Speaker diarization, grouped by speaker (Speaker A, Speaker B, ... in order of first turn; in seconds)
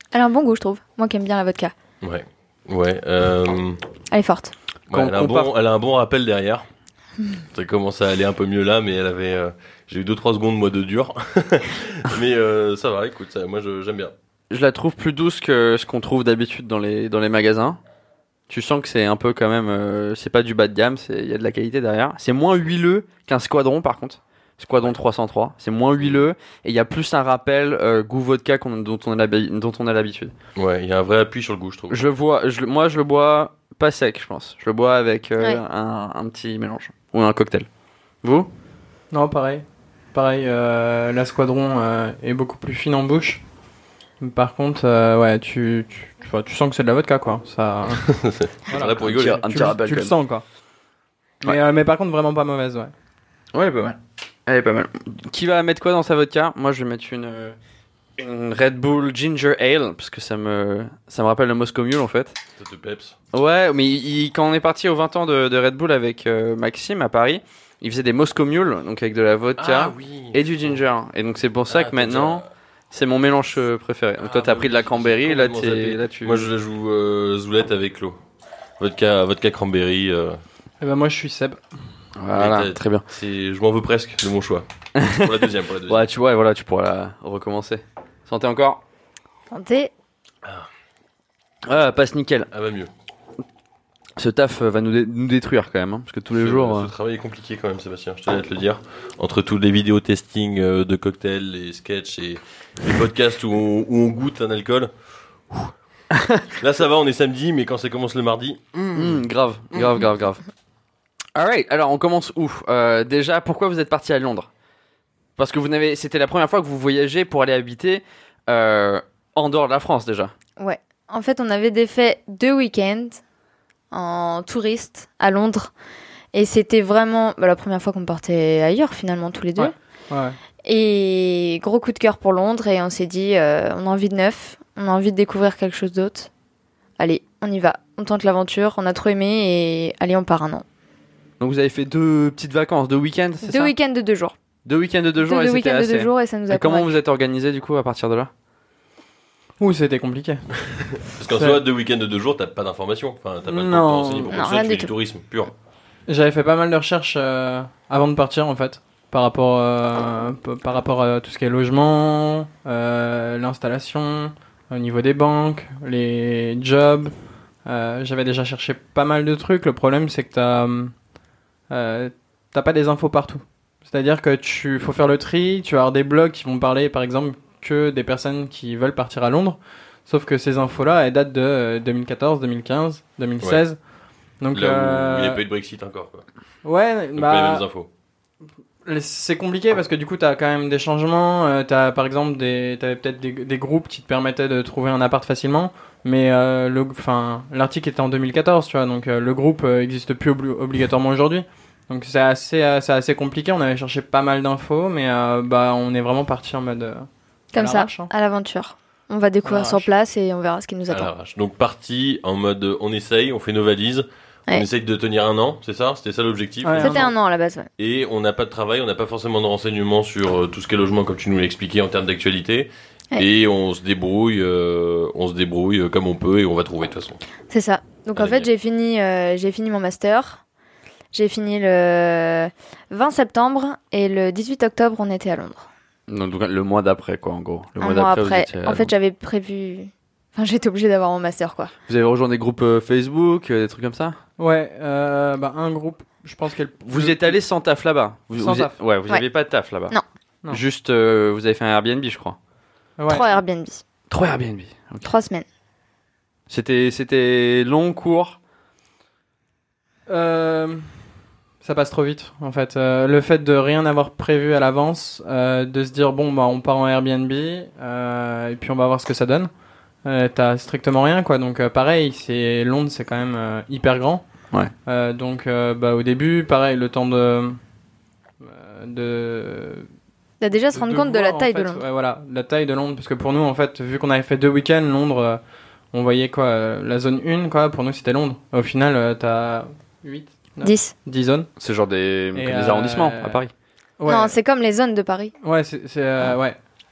Speaker A: 0.1-1.7, 4.1-4.5, 89.5-89.9, 120.6-123.2, 123.9-125.7, 126.3-129.7, 130.7-136.3, 137.0-140.7, 143.5-144.3, 145.2-146.9, 154.3-154.9, 207.5-211.1, 216.8-217.7, 227.5-230.4, 231.1-235.7, 237.8-241.7, 253.1-253.8, 255.0-255.5, 280.4-281.8, 290.6-290.9, 294.1-295.3
Speaker B: 2.0-3.8, 4.9-6.7, 7.5-14.1, 30.6-32.0, 48.0-49.4, 62.6-63.2, 69.6-70.8, 71.7-72.5, 74.2-78.2, 78.8-80.4, 82.3-86.1, 92.5-92.9, 96.3-104.9, 106.6-109.0, 151.1-155.5, 184.5-186.2, 187.2-187.9, 210.9-217.1, 217.8-227.2, 228.2-228.5
Speaker C: 4.9-5.5, 14.5-17.8, 18.5-30.4, 31.9-37.7, 38.2-38.5, 49.0-50.1, 53.5-57.5, 58.2-62.4, 63.3-76.5, 82.2-83.0, 85.0-85.3, 85.9-88.8, 91.7-92.5, 94.2-96.9, 106.2-106.4, 108.9-110.4, 111.3-114.5, 115.4-120.3, 141.4-143.7, 144.7-148.3, 236.1-238.9, 241.9-244.2, 246.9-250.0, 250.5-252.4, 254.1-255.1, 256.5-258.4, 291.6-293.5
Speaker D: 39.1-43.4, 44.2-48.1, 48.7-50.4, 51.4-52.9, 80.8-81.6, 129.6-130.4, 149.6-150.5, 151.3-151.6, 153.5-154.4, 156.1-167.1, 167.7-170.9, 171.7-183.8, 184.4-185.4, 186.6-187.7, 188.9-208.1, 209.4-209.9, 216.6-217.1, 244.4-247.4, 248.4-248.8, 253.0-253.3, 260.1-260.9, 261.6-269.5, 270.1-274.2, 274.9-277.6, 278.4-279.9, 280.7-285.4, 285.9-291.5, 292.4-293.4, 294.0-294.4, 295.4-296.6